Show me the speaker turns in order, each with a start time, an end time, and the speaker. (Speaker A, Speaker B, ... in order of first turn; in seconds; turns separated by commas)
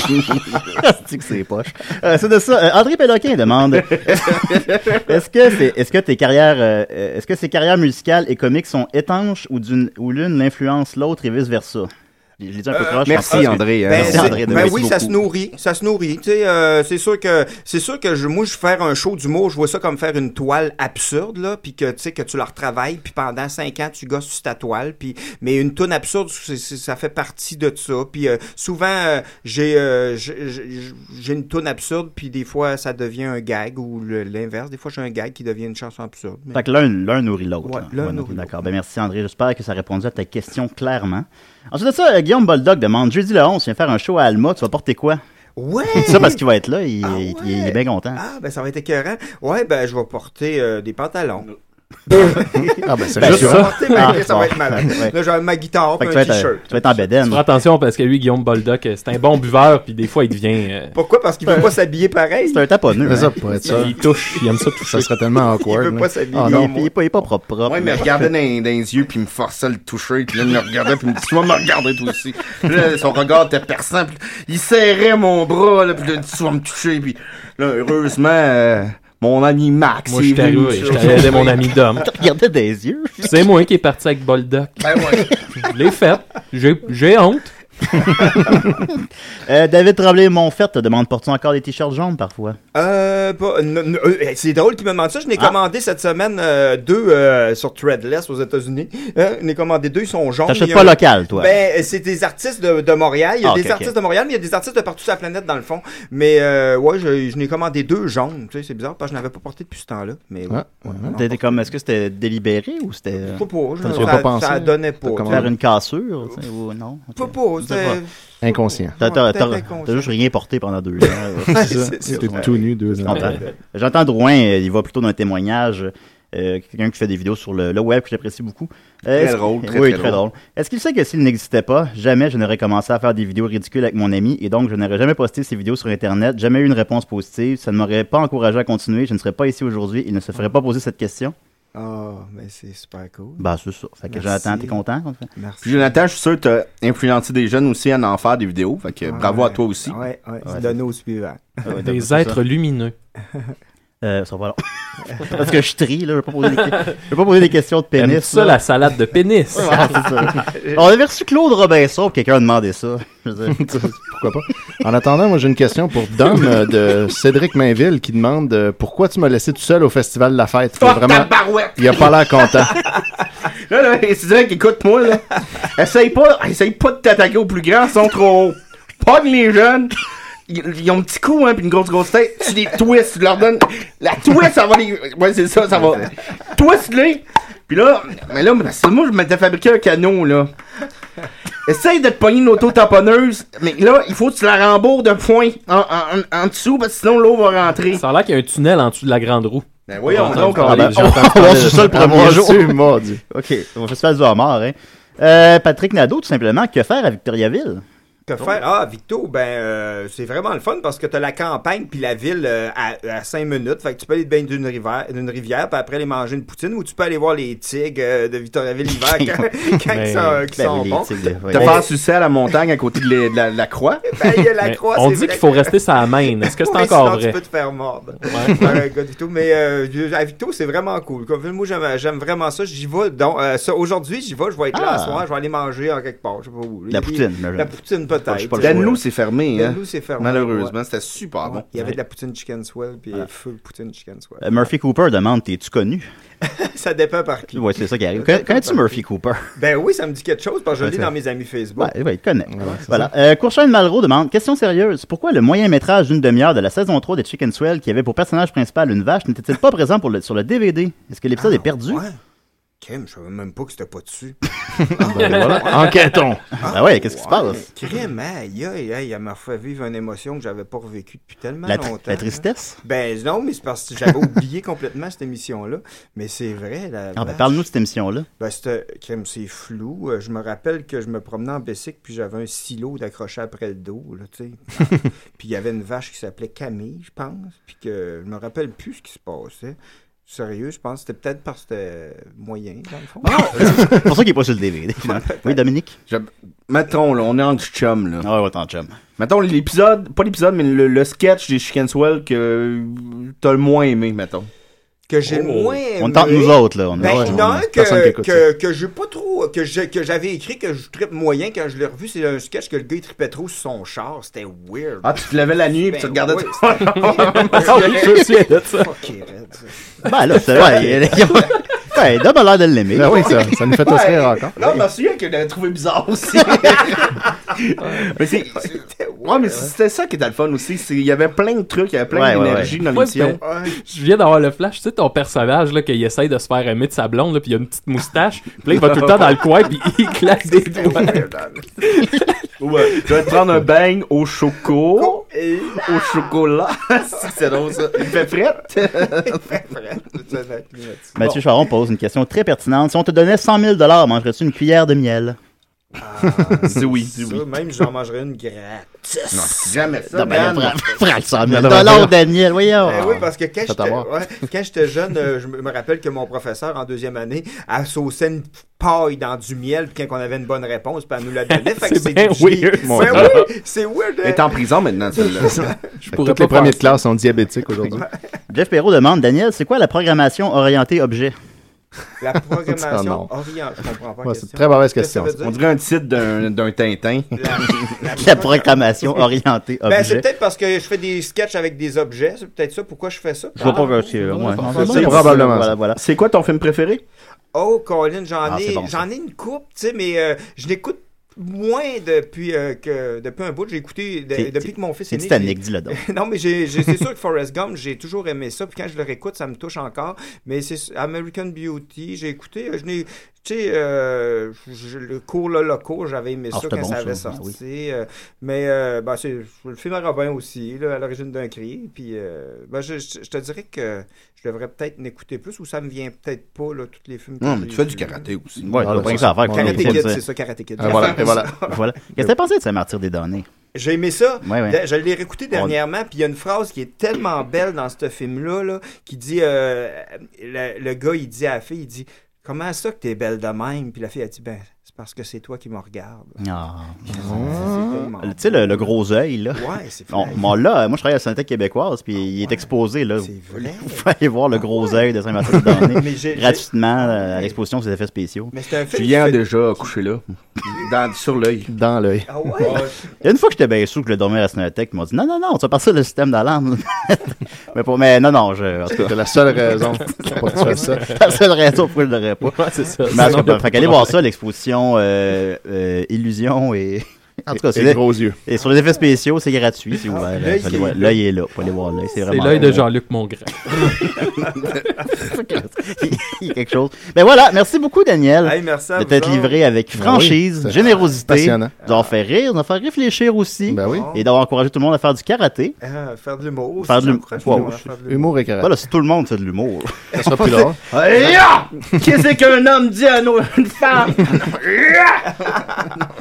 Speaker A: 0.6-14.8, Speaker B: 4.0-5.0, Speaker B: 12.8-15.1, Speaker C: 13.3-36.6, Speaker A: 36.5-45.2, Speaker C: 37.6-38.5, Speaker C: 45.6-46.4, Speaker A: 45.9-48.2, Speaker C: 47.0-51.5, Speaker C: 52.1-57.1, Speaker D: 52.8-53.7, Speaker A: 53.2-55.1, Speaker E: 53.3-54.1, Speaker A: 56.0-57.4, Speaker E: 57.3-60.9, Speaker C: 60.9-62.6, Speaker A: 61.5-61.7, Speaker A: 62.5-63.3, Speaker D: 63.0-63.9, Speaker E: 63.6-65.1, Speaker D: 64.8-66.7, Speaker C: 65.6-66.9, Speaker A: 66.4-68.3, Speaker B: 67.7-81.6, Speaker E: 80.1-82.0, Speaker A: 82.0-83.5, Speaker E: 83.2-87.5, Speaker B: 84.8-85.3, Speaker A: 88.3-88.9, Speaker A: 89.5-92.6, Speaker C: 92.7-111.7, Speaker A: 100.5-101.5, Speaker A: 103.4-103.9, Speaker D: 110.5-111.1, Speaker A: 111.1-114.2, Speaker C: 113.3-115.5, Speaker D: 113.8-115.5, Speaker A: 115.2-118.0, Speaker C: 117.1-120.1, Speaker D: 118.4-119.0, Speaker A: 119.0-141.3, Speaker D: 121.5-123.4, Speaker C: 121.5-123.5, Speaker B: 129.1-130.2, Speaker C: 141.7-143.4, Speaker A: 143.4-145.3, Speaker C: 144.1-144.8, Speaker C: 145.3-145.9, Speaker B: 145.6-150.0, Speaker C: 149.0-151.7, Speaker A: 150.4-150.7, Speaker A: 151.6-152.4, Speaker E: 151.8-152.9, Speaker A: 154.0-158.6, Speaker C: 155.1-155.4, Speaker E: 157.9-160.0, Speaker A: 159.5-163.9, Speaker D: 163.5-172.8, Speaker B: 170.8-172.1, Speaker B: 173.5-179.9, Speaker B: 180.5-190.5, Speaker B: 191.6-198.0, Speaker E: 197.9-201.9, Speaker B: 199.9-200.9, Speaker D: 200.2-203.2, Speaker A: 200.5-202.8, Speaker A: 203.3-207.8, Speaker C: 208.3-221.9, Speaker A: 218.9-219.4, Speaker E: 219.9-220.4, Speaker A: 220.6-221.8, Speaker B: 221.5-224.1, Speaker C: 224.1-225.7, Speaker E: 224.6-227.4, Speaker C: 226.4-240.8, Speaker E: 228.2-228.7, Speaker A: 234.7-235.2, Speaker A: 236.9-239.0, Speaker B: 238.6-241.6, Speaker C: 241.4-244.7, Speaker A: 244.4-246.1, Speaker C: 246.4-249.0, Speaker A: 247.5-249.5, Speaker C: 249.5-251.9, Speaker A: 251.8-262.0, Speaker D: 252.5-253.1, Speaker C: 261.4-262.2, Speaker C: 262.8-266.0, Speaker D: 264.9-266.5, Speaker E: 265.2-266.2, Speaker C: 266.6-277.6, Speaker A: 266.6-267.7, Speaker A: 271.6-272.8, Speaker A: 277.1-278.3, Speaker C: 278.4-294.1, Speaker A: 293.2-296.0, Speaker C: 295.0-295.6, Speaker B: 296.1-298.3, Speaker A: 298.2-299.0, Speaker B: 299.2-304.5, Speaker C: 305.1-315.2, Speaker A: 306.0-307.6, Speaker D: 306.9-308.4, Speaker B: 315.0-318.1, Speaker C: 315.9-317.9, Speaker E: 317.0-318.9, Speaker C: 318.8-320.6, Speaker A: 320.0-323.5, Speaker D: 322.9-324.6, Speaker B: 323.8-333.4, Speaker C: 326.7-327.1, Speaker C: 328.5-329.7, Speaker A: 332.1-332.8, Speaker E: 332.9-341.2, Speaker C: 333.4-333.8, Speaker B: 338.7-339.3, Speaker C: 340.7-341.7, Speaker E: 341.8-342.4, Speaker B: 342.6-349.4, Speaker C: 345.0-346.3, Speaker C: 347.1-348.1, Speaker C: 348.8-351.4, Speaker A: 351.1-355.4, Speaker C: 356.0-359.8, Speaker B: 356.5-357.4, Speaker B: 359.3-360.8, Speaker A: 360.1-363.2, Speaker D: 361.4-362.2, Speaker C: 362.8-374.6, Speaker D: 363.6-364.1, Speaker E: 371.5-373.5, Speaker D: 372.8-373.3, Speaker B: 374.2-375.7, Speaker D: 375.2-378.1, Speaker E: 376.0-377.0, Speaker A: 378.5-381.3, Speaker C: 382.2-385.6, Speaker D: 382.7-383.3, Speaker D: 384.2-385.3, Speaker B: 385.4-388.0, Speaker C: 387.3-388.8, Speaker A: 388.1-390.2, Speaker C: 389.8-395.3, Speaker A: 393.6-396.0, Speaker E: 393.7-394.7, Speaker D: 394.7-395.7, Speaker B: 394.9-395.3, Speaker B: 395.9-397.0, Speaker C: 397.5-428.3, Speaker A: 398.4-399.0, Speaker A: 404.4-406.0, Speaker A: 416.5-417.6, Speaker B: 427.4-429.1, Speaker A: 428.6-430.2, Speaker D: 428.7-430.1, Speaker C: 428.9-431.8, Speaker D: 430.8-431.6, Speaker A: 430.8-433.5, Speaker C: 433.7-446.4, Speaker A: 434.4-434.8, Speaker A: 446.4-458.5, Speaker C: 447.1-448.9, Speaker D: 447.1-448.0, Speaker C: 449.5-450.6, Speaker C: 453.2-454.0, Speaker C: 454.7-455.0, Speaker C: 455.5-457.6, Speaker C: 458.5-459.9, Speaker B: 458.9-461.7, Speaker D: 461.7-462.3, Speaker C: 462.2-462.9, Speaker A: 463.2-469.2, Speaker D: 468.9-471.1, Speaker A: 470.0-482.9, Speaker E: 472.6-474.2, Speaker D: 477.5-478.4, Speaker C: 480.1-481.2, Speaker E: 482.3-484.1, Speaker A: 483.7-484.5, Speaker A: 485.1-495.8, Speaker C: 488.4-489.6, Speaker D: 489.9-491.7, Speaker D: 493.7-494.1, Speaker C: 493.8-494.3, Speaker C: 495.8-498.4, Speaker A: 496.8-497.8, Speaker D: 497.4-498.8, Speaker A: 498.6-500.7, Speaker D: 500.1-500.8, Speaker B: 500.8-506.0